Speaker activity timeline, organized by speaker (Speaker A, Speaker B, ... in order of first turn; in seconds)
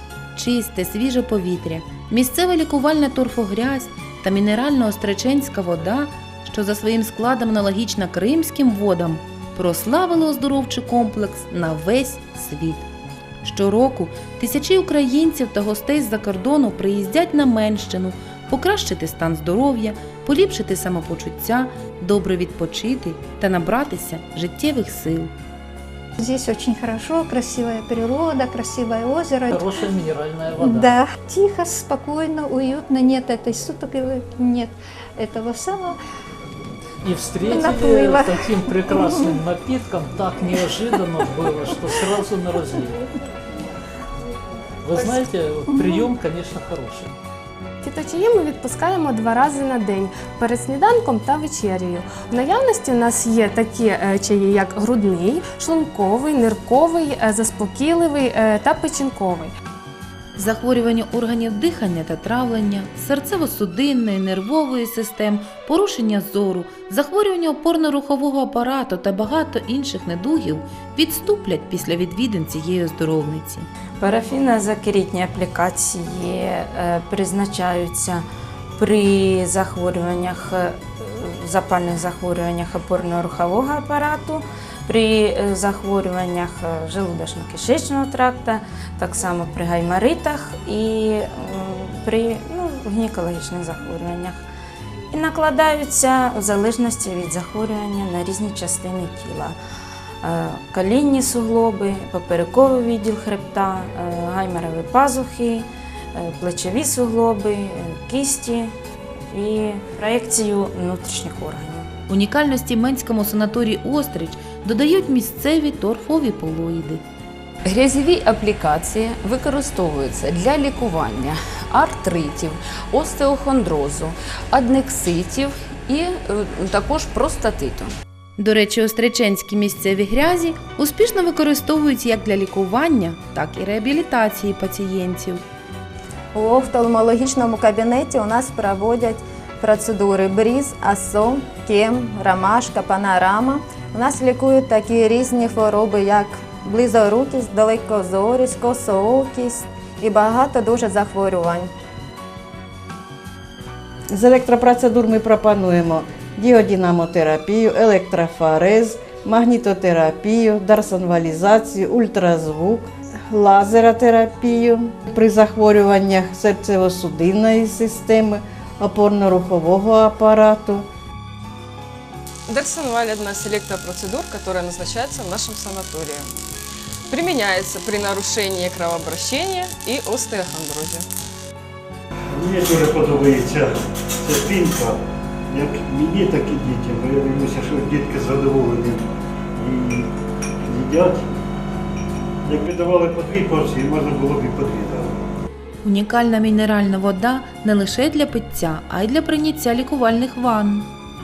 Speaker A: 0.3-12.9, 13.4-25.3, 60.4-73.7, 112.1-117.0, 128.4-135.4, 195.8-200.9
Speaker B: 26.2-29.8, 30.6-36.0, 37.5-39.4
Speaker C: 29.5-31.0, 37.0-43.0, 44.9-47.1
Speaker D: 47.8-59.5
Speaker E: 74.0-94.5, 95.1-99.6, 100.2-108.7, 109.3-111.9
Speaker F: 117.7-120.8, 121.8-127.9
Speaker G: 136.3-151.7
Speaker H: 154.1-170.8
Speaker I: 172.5-176.2, 177.1-181.0
Speaker J: 182.3-190.1, 190.6-191.3, 192.4-195.2